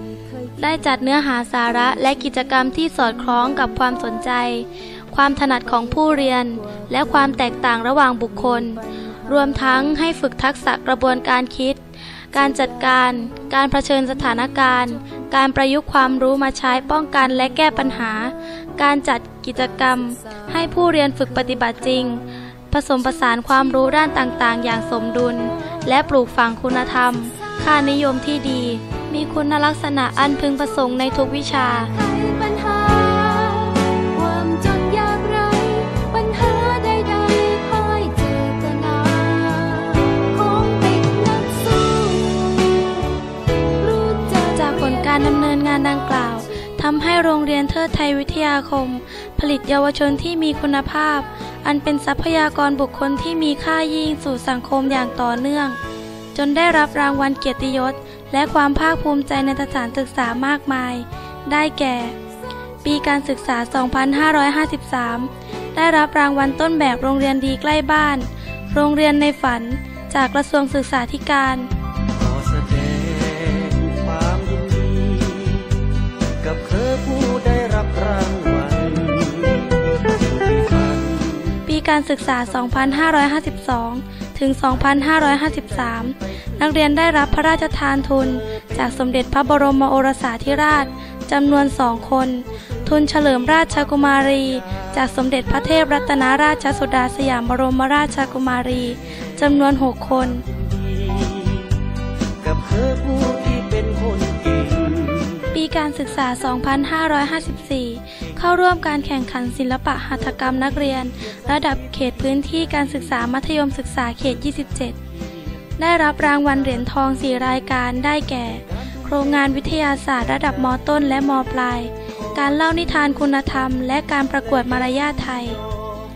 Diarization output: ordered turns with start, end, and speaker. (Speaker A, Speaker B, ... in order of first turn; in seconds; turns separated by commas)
Speaker A: 0.6-31.9, Speaker B: 32.0-43.2, Speaker B: 43.8-44.5, Speaker A: 44.5-55.8, Speaker A: 56.3-62.2, Speaker A: 62.8-71.7, Speaker C: 72.2-75.7, Speaker C: 76.4-79.7, Speaker C: 80.2-81.4, Speaker A: 81.7-100.5, Speaker C: 101.2-101.5, Speaker C: 102.4-105.3, Speaker A: 105.5-115.0, Speaker A: 115.8-125.6